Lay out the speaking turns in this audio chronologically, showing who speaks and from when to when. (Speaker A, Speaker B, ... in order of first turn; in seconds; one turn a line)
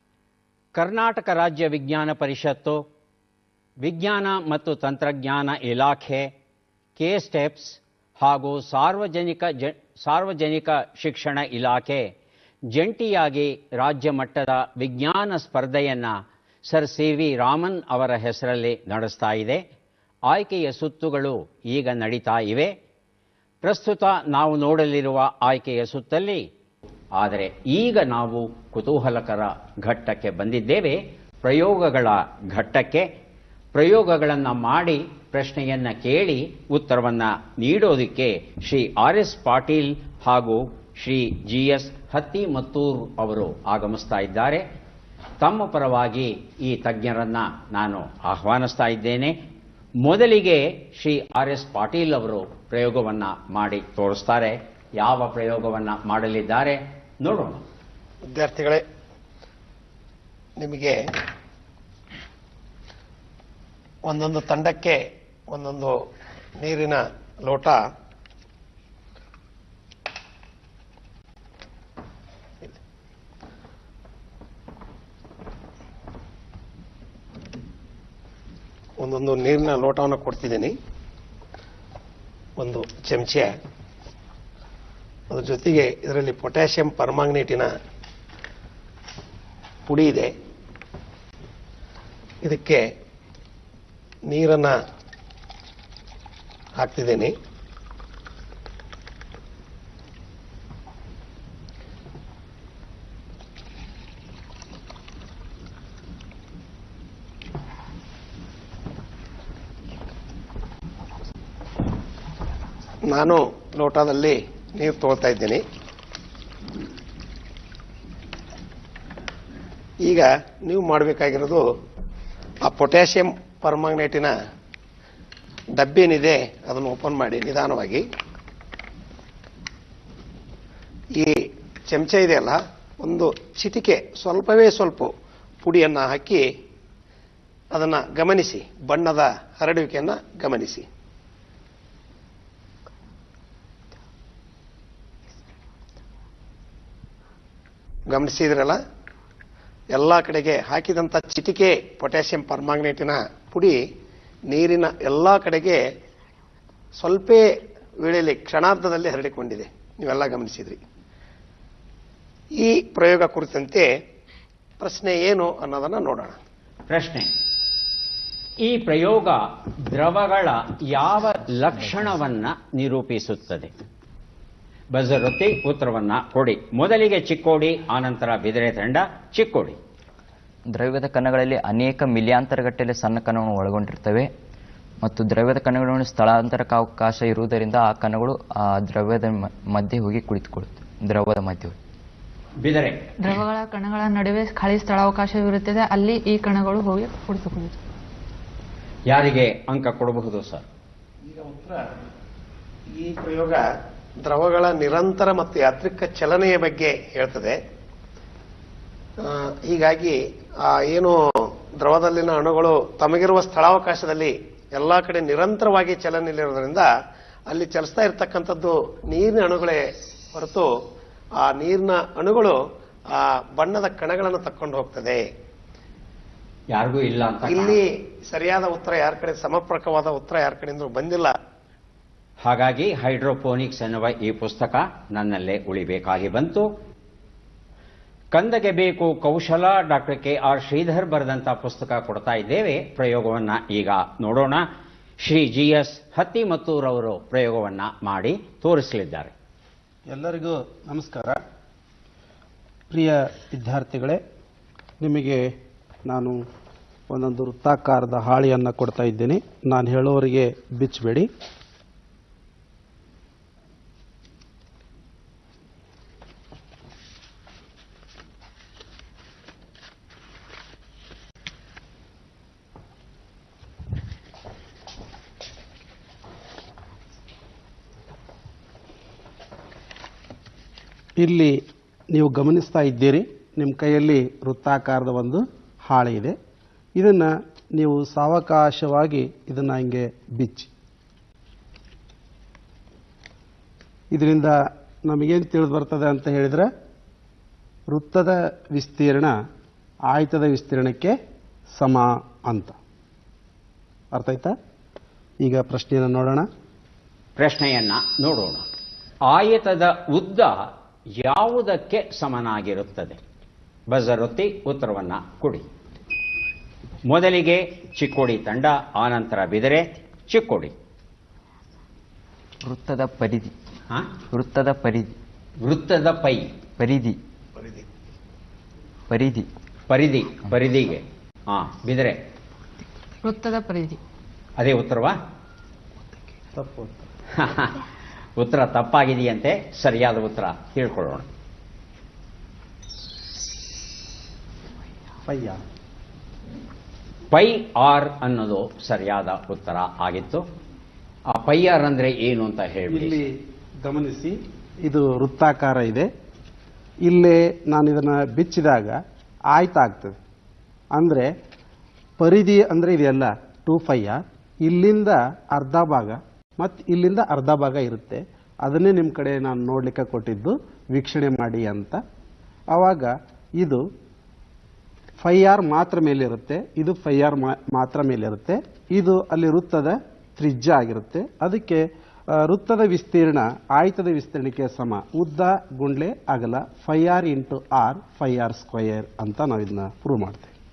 Speaker A: 0.7-2.8
Speaker A: 3.8-6.3
Speaker A: 7.0-12.0
Speaker A: 12.7-16.1
Speaker A: 16.7-19.6
Speaker A: 20.3-22.7
Speaker A: 23.6-26.4
Speaker A: 27.1-33.0
Speaker A: 33.7-44.6
Speaker A: 45.4-49.3
Speaker A: 50.0-57.6
Speaker B: 58.3-58.8
Speaker B: 60.6-61.0
Speaker B: 64.0-65.9
Speaker B: 66.6-67.8
Speaker B: 79.0-80.7
Speaker B: 82.6-83.5
Speaker B: 85.3-87.7
Speaker B: 89.8-90.3
Speaker B: 92.4-92.8
Speaker B: 94.3-94.7
Speaker B: 96.8-97.3
Speaker B: 113.1-115.6
Speaker B: 120.0-121.6
Speaker B: 122.6-124.3
Speaker B: 125.8-128.0
Speaker B: 131.9-135.1
Speaker B: 135.6-136.4
Speaker B: 137.7-140.8
Speaker B: 148.1-148.8
Speaker B: 149.9-153.8
Speaker B: 154.5-155.8
Speaker B: 157.0-157.4
Speaker B: 158.0-160.8
Speaker B: 162.6-163.9
Speaker B: 164.8-166.4
Speaker A: 166.9-167.3
Speaker A: 168.6-173.7
Speaker A: 174.9-179.8
Speaker C: 180.7-184.3
Speaker C: 185.0-191.7
Speaker A: 192.6-193.1
Speaker D: 193.2-197.8
Speaker A: 199.1-200.6
Speaker B: 201.2-202.1
Speaker B: 202.9-203.6
Speaker B: 204.2-207.6
Speaker B: 209.2-211.2
Speaker B: 211.8-216.9
Speaker B: 217.5-220.7
Speaker B: 221.4-222.6
Speaker B: 223.1-225.2
Speaker A: 226.7-227.8
Speaker B: 227.4-231.3
Speaker A: 232.4-236.7
Speaker A: 238.3-244.6
Speaker A: 245.2-249.3
Speaker E: 250.1-251.4
Speaker E: 252.9-254.2
Speaker E: 255.0-255.4
Speaker E: 257.1-261.3
Speaker E: 281.2-281.5
Speaker E: 282.1-286.3
Speaker E: 287.0-290.7
Speaker E: 294.1-294.5
Speaker E: 295.1-296.7
Speaker E: 297.9-299.3
Speaker E: 300.1-301.1
Speaker E: 301.8-302.7
Speaker E: 304.1-304.5
Speaker E: 305.4-306.4
Speaker A: 307.4-308.6
Speaker A: 309.3-310.6
Speaker A: 311.2-313.2
Speaker A: 313.9-315.6
Speaker A: 317.1-320.7
Speaker C: 322.6-323.5
Speaker C: 324.3-325.1
Speaker A: 325.6-326.5
Speaker C: 326.8-327.2
Speaker B: 327.6-327.9
Speaker C: 329.1-329.5
Speaker A: 329.9-332.2
Speaker D: 333.2-334.0
Speaker A: 334.6-335.1
Speaker E: 336.5-337.0
Speaker A: 337.3-337.9
Speaker A: 338.4-341.2
Speaker E: 345.2-345.6
Speaker A: 347.3-350.4
Speaker A: 351.3-353.2
Speaker E: 352.9-353.3
Speaker E: 353.8-356.1
Speaker E: 357.1-359.0
Speaker E: 359.5-360.2
Speaker E: 360.9-361.3
Speaker E: 362.2-372.0
Speaker E: 372.7-373.8
Speaker E: 375.2-381.8
Speaker E: 382.4-390.5